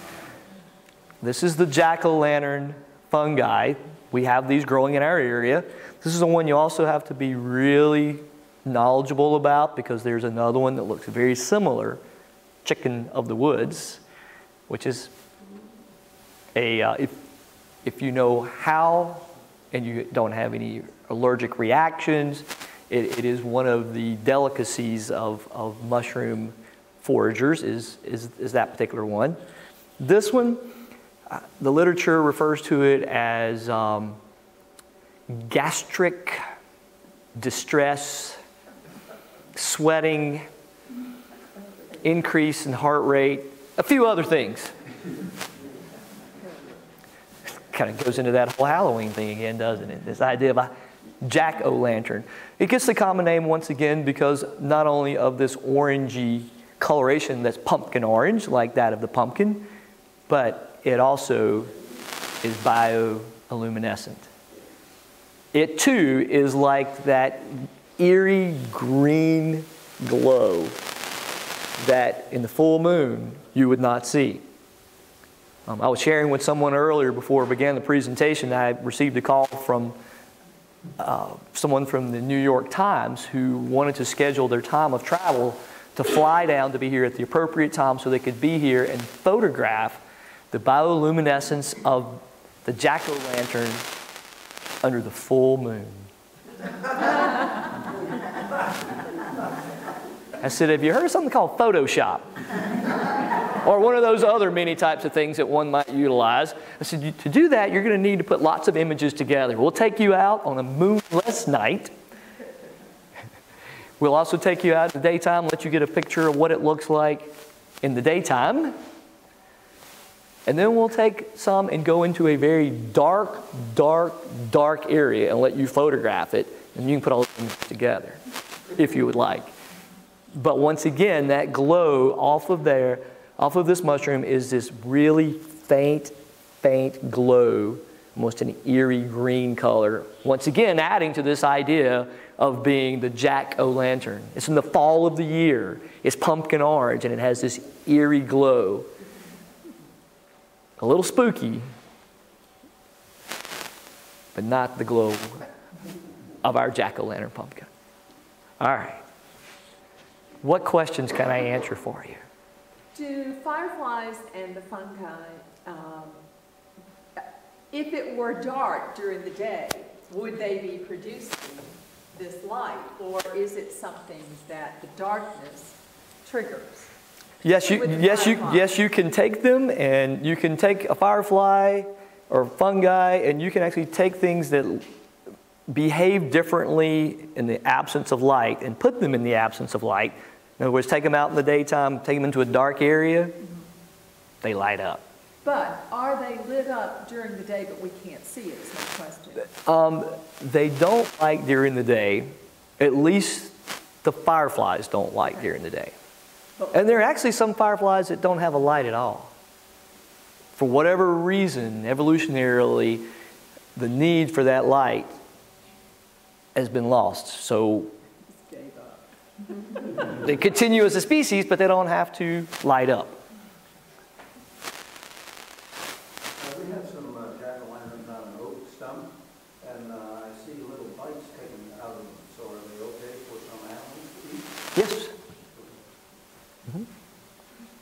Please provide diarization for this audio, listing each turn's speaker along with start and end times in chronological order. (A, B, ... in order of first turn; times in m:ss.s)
0:01.2-0:12.0 A
0:12.6-0:14.0 A
0:14.7-0:15.1 A
0:16.6-0:17.2 A
0:17.8-0:29.4 A
0:30.0-0:30.8 A
0:31.3-0:34.2 A
0:35.3-0:36.4 A
0:37.4-0:38.4 A
0:39.6-0:40.5 A
0:42.0-0:44.7 A
0:47.7-0:59.7 A
1:00.3-1:01.7 A
1:02.4-1:04.3 A
1:05.5-1:10.8 A
1:11.8-1:14.4 A
1:15.7-1:20.0 A
1:21.0-1:33.9 A
1:34.8-1:36.1 A
1:40.4-1:42.3 A
1:43.6-1:51.9 A
1:54.0-1:58.8 A
2:00.5-2:08.2 A
2:08.8-2:09.5 A
2:10.3-2:28.9 A
2:30.8-2:31.7 A
2:34.4-2:35.4 A
2:36.4-2:37.7 A
2:38.6-2:39.0 A
2:40.4-2:42.2 A
2:42.9-2:46.2 B
2:47.2-2:56.9 B
2:57.4-3:04.9 A
2:57.7-2:58.7 B
3:05.7-3:13.4 A
3:14.4-3:15.0 A
3:15.4-3:19.5 B
3:19.5-3:26.0 A
3:26.7-3:29.3 A
3:30.6-3:33.1 A
3:33.8-3:35.1 A
3:36.6-3:37.9 A
3:38.3-3:40.1 B
3:40.0-3:43.2 A
3:46.4-3:54.7 C
3:54.8-3:55.1 A